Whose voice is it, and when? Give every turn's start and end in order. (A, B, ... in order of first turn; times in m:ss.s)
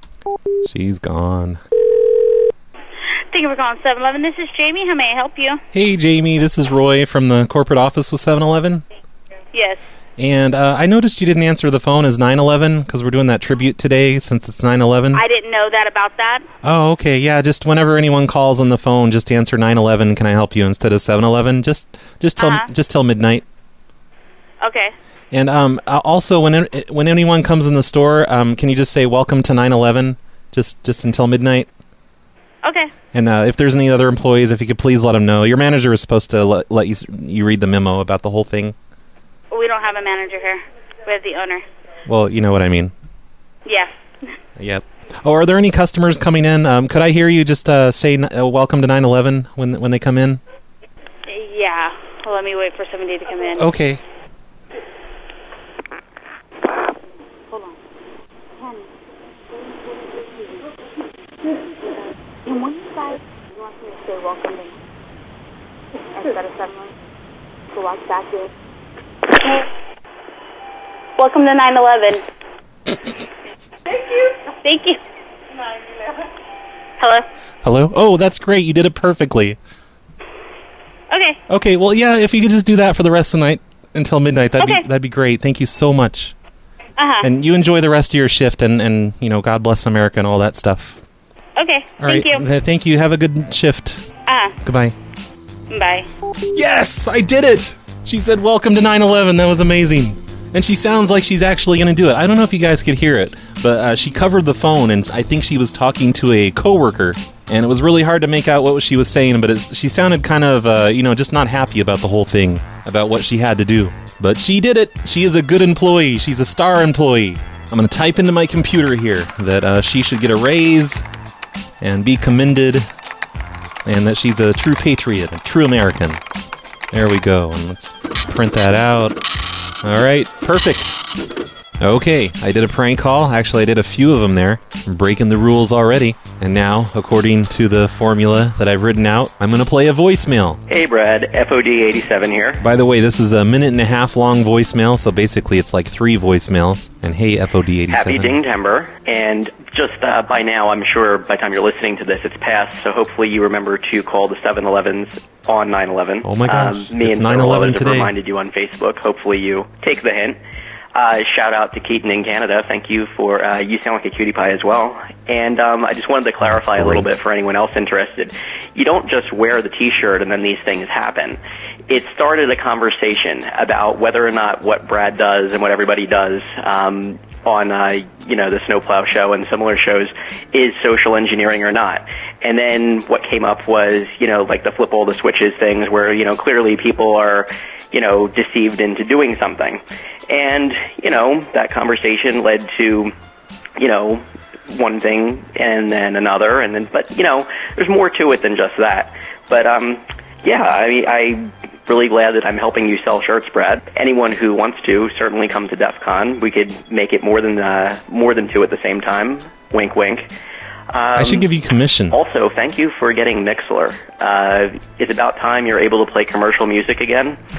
0:00.6-0:01.6 A
0:03.3-0:05.6 B
0:05.7-0:08.8 A
0:09.5-0:09.8 B
0:10.2-0:15.2 A
0:15.1-0:16.4 B
0:16.6-0:23.4 A
0:22.4-0:22.6 B
0:24.6-0:24.9 B
0:25.3-0:31.7 A
0:32.6-0:32.9 B
0:33.1-0:38.7 A
0:39.5-0:41.6 B
0:42.1-0:42.9 A
0:44.6-0:50.4 A
0:51.3-0:53.6 B
0:53.6-0:54.0 A
0:57.5-0:57.8 B
0:58.6-0:58.9 B
1:02.4-1:04.7 B
1:06.0-1:06.9 B
1:07.7-1:08.5 B
1:09.3-1:09.6 B
1:11.2-1:12.2 B
1:14.6-1:15.0 B
1:17.6-1:19.6 A
1:21.1-1:21.4 B
1:21.5-1:26.3 A
1:24.6-1:24.8 B
1:27.0-1:27.3 B
1:27.2-1:31.0 A
1:31.6-1:32.4 B
1:32.0-1:34.0 A
1:34.3-1:34.5 B
1:34.6-1:34.9 A
1:35.7-1:36.1 B
1:36.5-2:01.0 A
2:01.8-2:02.8 A
2:03.8-2:06.2 A
2:06.9-2:09.2 A
2:09.8-2:11.0 A
2:11.8-2:20.6 A
2:20.7-2:22.6 C
2:22.6-2:28.4 A
2:27.9-2:40.4 C
2:36.2-2:38.1 A
2:40.9-3:13.1 C
2:46.4-2:47.1 A
3:13.8-3:30.3 C
3:30.9-3:31.5 C
3:31.1-3:32.2 A
3:32.1-3:37.4 C